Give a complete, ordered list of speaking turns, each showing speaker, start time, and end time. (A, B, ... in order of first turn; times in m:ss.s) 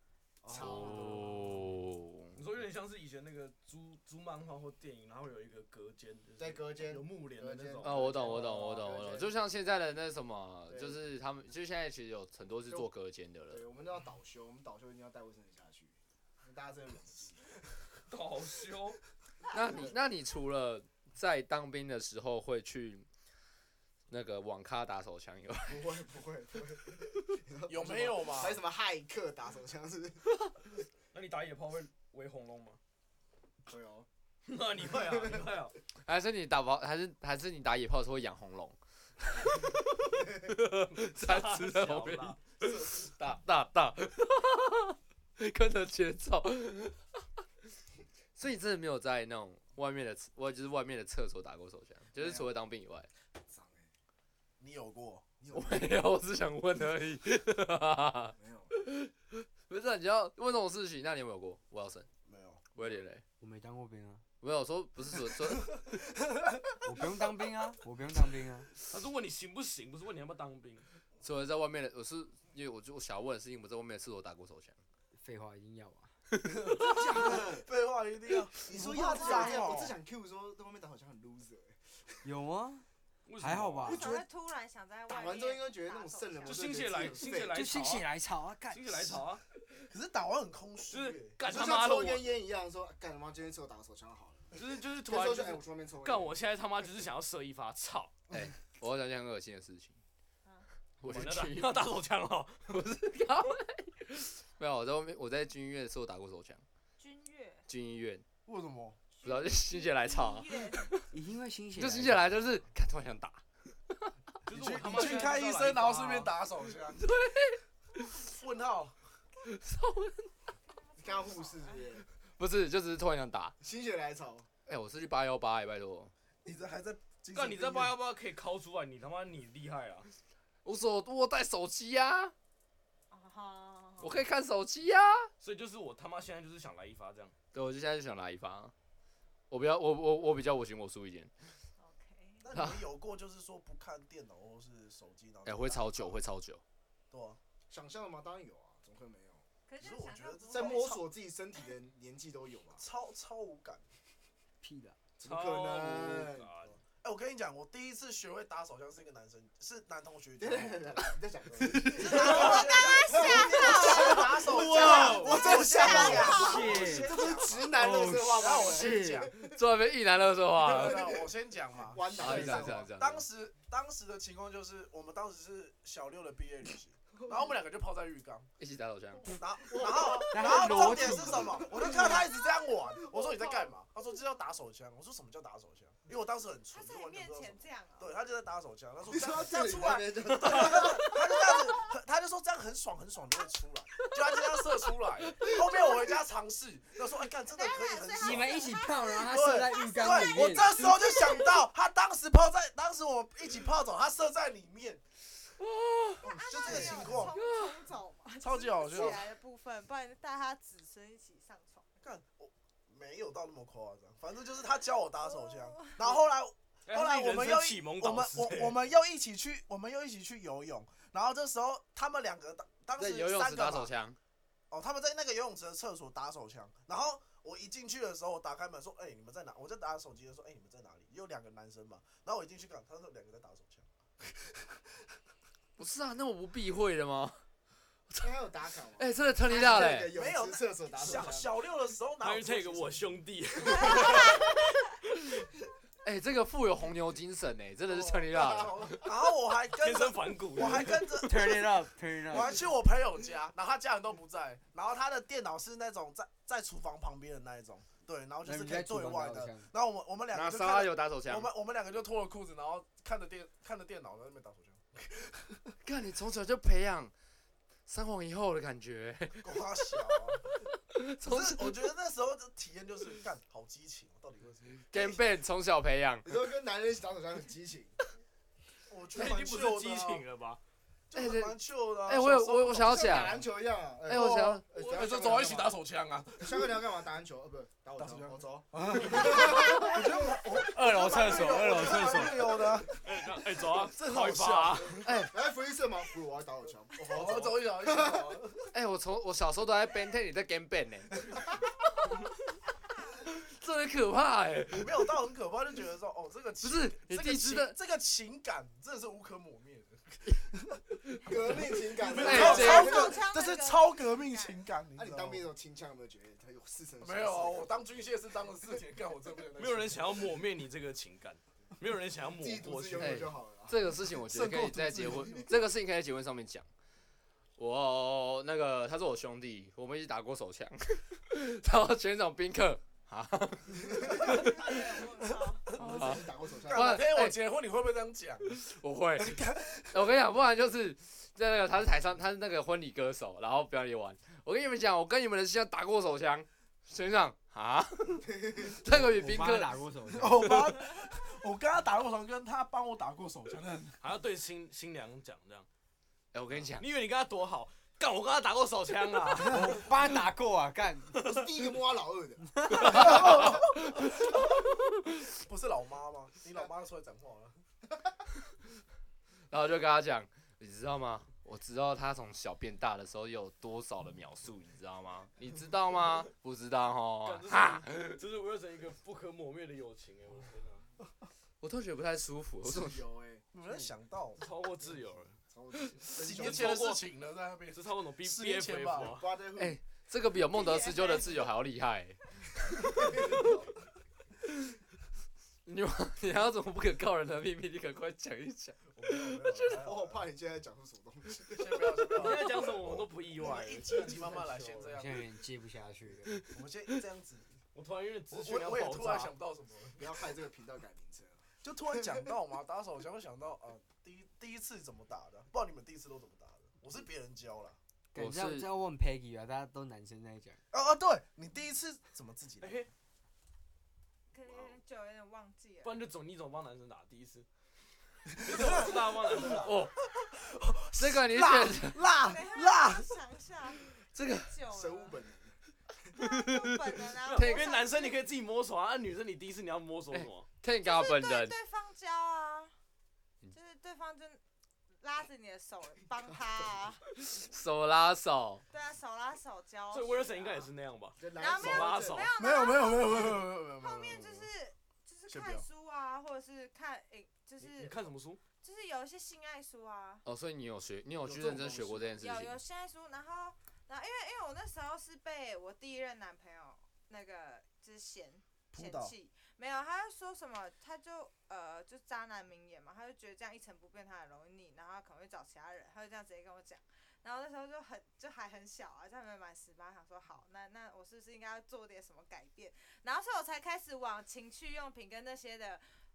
0:00.4-0:01.6 A
0:00.5-0:02.4 B
0:02.4-0:08.5 C
0:06.4-0:09.3 A
0:07.8-0:13.6 B
0:10.7-0:11.0 A
0:13.5-0:17.5 A
0:18.1-0:19.0 C
0:19.5-0:23.1 B
0:19.7-0:19.9 A
0:24.1-0:25.9 B
0:25.7-0:30.2 A
0:27.7-0:28.6 D
0:31.1-0:32.8 C
0:33.7-0:34.1 A
0:34.5-0:35.8 C
0:34.9-0:35.6 A
0:36.0-0:47.0 B
0:41.1-0:42.6 C
0:48.4-0:53.1 B
0:52.2-0:52.5 A
0:53.4-0:53.9 A
0:54.6-0:55.4 D
0:55.4-0:56.0 A
0:55.5-1:02.1 B
0:58.4-0:58.8 A
1:02.2-1:02.7 D
1:02.8-1:03.2 B
1:03.4-1:04.2 E
1:04.4-1:05.8 B
1:06.8-1:08.7 E
1:08.9-1:10.9 C
1:11.2-1:14.8 B
1:15.2-1:16.1 E
1:16.7-1:20.0 D
1:16.8-1:17.7 A
1:18.6-1:22.2 A
1:19.1-1:19.8 F
1:22.2-1:22.9 E
1:23.3-1:24.1 C
1:23.4-1:24.1 E
1:23.9-1:27.1 F
1:23.9-1:24.2 A
1:25.1-1:27.7 A
1:26.5-1:28.1 C
1:27.5-1:29.2 E
1:28.7-1:29.4 C
1:29.9-1:31.4 D
1:30.9-1:32.3 C
1:31.4-1:36.4 A
1:34.5-1:38.2 C
1:38.3-1:40.0 B
1:41.0-1:41.9 B
1:41.0-1:42.7 C
1:42.7-1:46.6 B
1:47.0-1:47.7 F
1:47.7-1:48.2 B
1:48.5-1:49.1 D
1:49.2-1:51.0 F
1:49.2-1:51.1 B
1:51.1-1:52.5 E
1:51.8-1:54.1 B
1:54.5-1:56.3 C
1:54.5-1:57.1 D
1:57.0-1:58.2 B
1:58.2-1:59.0 D
1:59.4-2:00.3 B
2:00.7-2:02.0 F
2:01.0-2:02.0 A
2:02.4-2:03.6 B
2:03.6-2:04.5 A
2:04.7-2:06.1 B
2:06.4-2:08.0 D
2:07.3-2:10.1 C
2:10.6-2:12.3 B
2:13.1-2:14.3 F
2:14.0-2:15.3 B
2:15.4-2:17.4 C
2:17.5-2:18.7 B
2:19.5-2:21.3 B
2:21.8-2:22.5 F
2:22.4-2:26.2 D
2:22.6-2:22.8 B
2:25.4-2:26.6 B
2:27.1-2:27.4 D
2:27.7-2:29.4 A
2:29.7-2:31.0 F
2:29.8-2:31.0 D
2:30.5-2:32.8 A
2:32.8-2:33.8 D
2:34.6-2:35.0 E
2:35.2-2:36.5 A
2:35.2-2:36.8 C
2:36.6-2:41.0 D
2:40.4-2:49.6 A
2:41.7-2:42.1 B
2:41.8-2:49.4 D
2:42.1-2:46.8 F
2:44.6-2:49.2 E
2:49.4-2:51.0 B
2:50.6-2:58.5 D
2:50.6-2:52.9 A
2:52.2-2:53.2 B
2:58.6-2:59.3 B
2:59.2-3:18.6 D
2:59.6-3:03.7 A
3:00.3-3:01.6 E
3:06.7-3:08.3 F
3:09.0-3:11.3 A
3:11.3-3:11.8 F
3:17.5-3:21.6 F
3:18.2-3:20.9 E
3:19.3-3:25.0 D
3:25.6-3:26.3 B
3:26.2-3:27.3 A
3:26.4-3:31.9 F
3:26.6-3:27.4 D
3:27.4-3:27.8 B
3:28.4-3:29.3 D
3:32.0-3:43.9 D
3:35.2-3:36.1 F
3:36.9-3:38.8 C
3:43.0-3:44.2 B
3:44.7-3:54.9 D
3:55.8-3:57.4 B
3:58.2-4:01.5 A
3:59.0-4:00.2 B
3:59.6-4:03.2 D
4:02.2-4:04.6 C
4:03.7-4:04.6 F
4:06.0-4:09.1 B
4:07.9-4:11.7 D
4:08.3-4:09.1 A
4:09.7-4:11.2 C
4:11.2-4:12.6 E
4:12.3-4:25.8 D
4:18.4-4:19.7 E
4:20.3-4:21.5 B
4:25.8-4:27.1 B
4:27.9-4:30.2 B
4:29.4-4:30.5 D
4:30.9-4:31.9 B
4:31.2-4:35.2 D
4:34.9-4:36.3 B
4:36.2-4:37.9 A
4:38.9-4:40.2 D
4:39.1-4:40.6 C
4:41.1-4:43.4 D
4:41.1-4:43.4 B
4:42.7-4:45.8 A
4:44.1-4:44.7 B
4:44.1-4:46.7 D
4:46.4-4:50.4 A
4:48.0-4:55.1 D
4:49.3-4:49.9 B
4:50.6-4:52.6 E
4:51.2-4:52.0 B
4:53.0-4:55.0 C
4:55.0-4:55.3 B
4:55.2-4:58.4 A
4:57.0-4:58.7 D
4:58.7-5:02.3 B
5:03.2-5:05.2 B
5:04.7-5:10.8 D
5:06.6-5:07.8 B
5:11.2-5:13.2 A
5:11.5-5:15.5 D
5:12.2-5:13.1 B
5:12.3-5:14.7 F
5:15.0-5:17.7 A
5:17.0-5:20.2 D
5:19.6-5:23.3 C
5:22.4-5:23.8 A
5:23.0-5:26.7 B
5:24.2-5:25.5 D
5:27.6-5:34.7 B
5:33.9-5:34.4 A
5:34.2-5:35.8 F
5:34.4-5:34.8 D
5:35.7-5:38.6 D
5:35.7-5:37.1 A
5:35.8-5:37.4 B
5:38.5-5:49.8 B
5:39.2-5:40.1 D
5:48.3-5:48.7 A
5:48.9-5:50.7 E
5:50.1-5:54.0 D
5:54.0-5:55.7 C
5:56.3-5:56.8 B
5:56.8-5:59.8 C
5:59.5-6:01.2 E
6:01.2-6:03.6 A
6:02.8-6:04.1 B
6:02.8-6:04.3 D
6:05.4-6:07.6 D
6:09.5-6:18.2 B
6:17.2-6:20.9 C
6:21.6-6:23.0 B
6:22.6-6:23.4 A
6:23.5-6:24.4 D
6:24.4-6:25.4 C
6:25.5-6:26.9 A
6:26.1-6:27.1 C
6:26.2-6:29.2 D
6:27.7-6:29.3 C
6:29.0-6:29.8 A
6:29.6-6:33.2 B
6:30.5-6:31.5 F
6:32.8-6:33.7 A
6:35.6-6:39.6 B
6:38.9-6:40.2 D
6:39.7-6:42.4 A
6:41.5-6:45.3 D
6:42.1-6:44.9 C
6:44.9-6:46.4 E
6:46.5-6:47.5 D
6:47.7-6:49.4 C
6:48.3-6:50.1 D
6:50.0-6:52.3 A
6:51.6-6:57.8 D
6:58.1-7:00.6 E
6:58.2-6:58.7 B
7:00.7-7:02.9 D
7:02.6-7:02.9 C
7:04.3-7:06.0 F
7:05.8-7:07.5 C
7:08.4-7:09.8 C
7:08.4-7:09.6 D
7:09.6-7:09.9 B
7:10.2-7:13.2 D
7:11.0-7:12.1 B
7:12.2-7:15.2 F
7:14.2-7:14.5 B
7:14.7-7:15.6 A
7:16.2-7:18.2 F
7:16.2-7:17.7 B
7:17.2-7:20.5 C
7:20.1-7:21.6 B
7:20.8-7:22.7 F
7:23.5-7:24.4 F
7:25.0-7:27.0 F
7:27.2-7:28.6 B
7:28.7-7:30.7 F
7:29.9-7:32.3 C
7:31.2-7:32.3 A
7:31.4-7:40.2 F
7:32.4-7:34.5 D
7:35.3-7:35.6 D
7:37.6-7:38.4 C
7:40.2-7:42.6 B
7:41.2-7:42.2 D
7:42.2-8:05.9 F
7:48.7-7:49.1 D